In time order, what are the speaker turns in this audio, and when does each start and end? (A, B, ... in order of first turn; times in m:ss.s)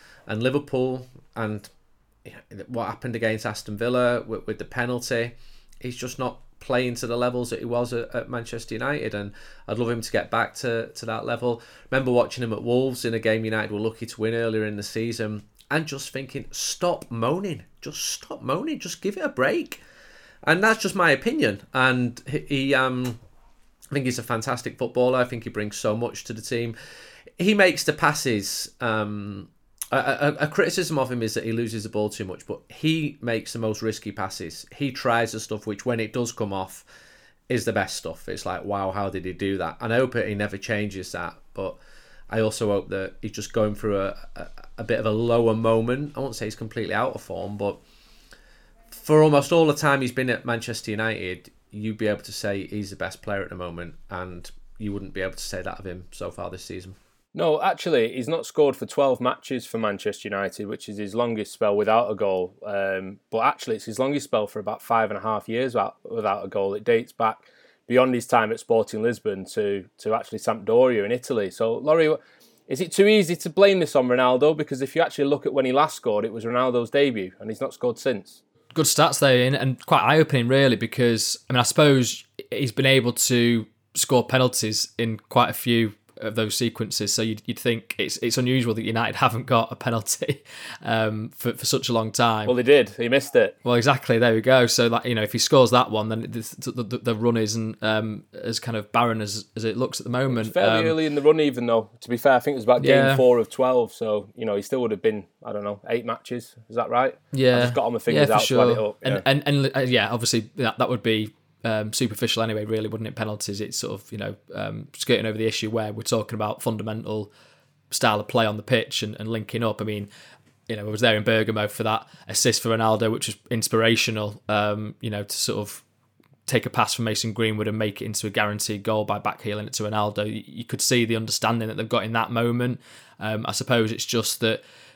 0:00.3-0:01.7 A
0:02.2-0:19.8 A
0:20.4-0:23.2 A
0:23.9-0:26.7 A
0:27.4-0:36.8 A
0:37.5-0:41.8 A
0:42.3-0:47.8 A
0:48.9-0:57.0 A
0:57.3-1:18.4 B
1:18.7-1:32.5 C
1:32.5-1:33.5 B
1:33.6-1:40.9 C
1:40.3-1:49.2 B
1:42.8-1:43.2 C
1:47.3-1:57.3 C
1:57.9-2:00.1 C
2:00.7-2:05.8 C
2:06.5-2:14.6 C